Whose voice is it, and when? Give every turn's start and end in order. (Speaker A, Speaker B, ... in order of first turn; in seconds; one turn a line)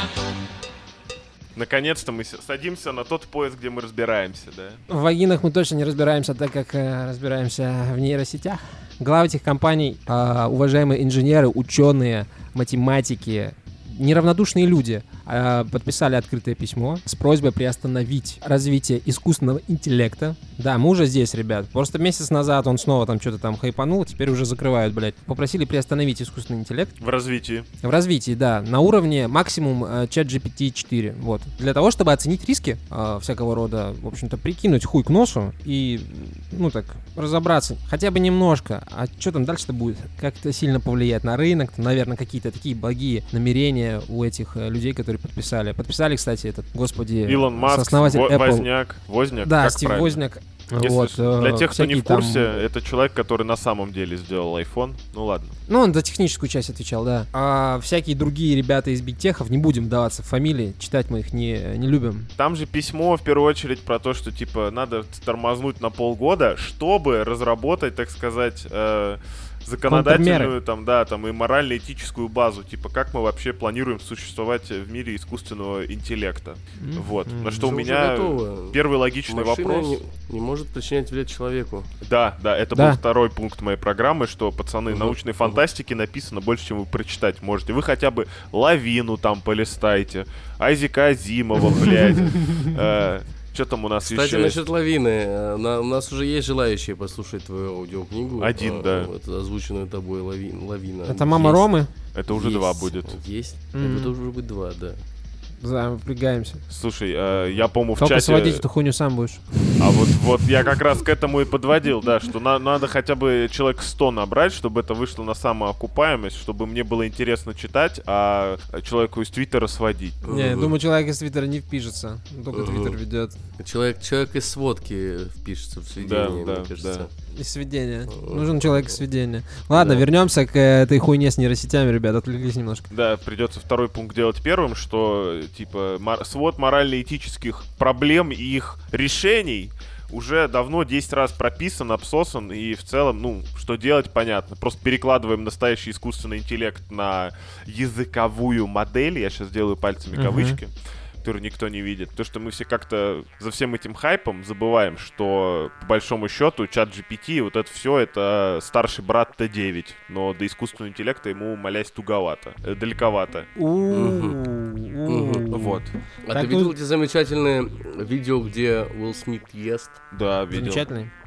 Speaker A: 1.6-4.8
Speaker B: 4.9-26.9
Speaker A: 27.0-27.7
Speaker B: 27.8-48.7
Speaker A: 47.2-50.2
Speaker B: 49.4-52.6
Speaker A: 50.8-55.5
Speaker B: 55.7-62.3
Speaker A: 62.4-80.0
Speaker B: 69.9-70.5
Speaker B: 76.8-77.7
Speaker C: 77.6-81.9
Speaker A: 82.0-94.6
Speaker B: 82.7-83.0
Speaker C: 84.9-85.6
Speaker C: 94.0-101.7
Speaker A: 98.4-99.1
Speaker B: 101.1-101.9
Speaker A: 102.1-103.2
Speaker C: 102.3-105.0
Speaker B: 103.7-104.1
Speaker B: 105.6-106.6
Speaker A: 106.7-108.6
Speaker C: 107.3-107.6
Speaker B: 108.0-109.6
Speaker A: 109.8-120.2
Speaker C: 120.2-120.8
Speaker B: 120.3-123.3
Speaker C: 122.5-123.0
Speaker C: 123.6-127.1
Speaker A: 126.0-127.1
Speaker B: 127.3-132.9
Speaker C: 128.1-128.9
Speaker C: 129.7-130.0
Speaker A: 132.9-150.7
Speaker B: 150.1-150.6
Speaker A: 151.2-163.5
Speaker B: 163.6-165.8
Speaker C: 163.9-164.4
Speaker C: 165.1-170.0
Speaker A: 165.5-165.9
Speaker B: 166.3-166.7
Speaker A: 170.1-170.9
Speaker B: 170.5-171.1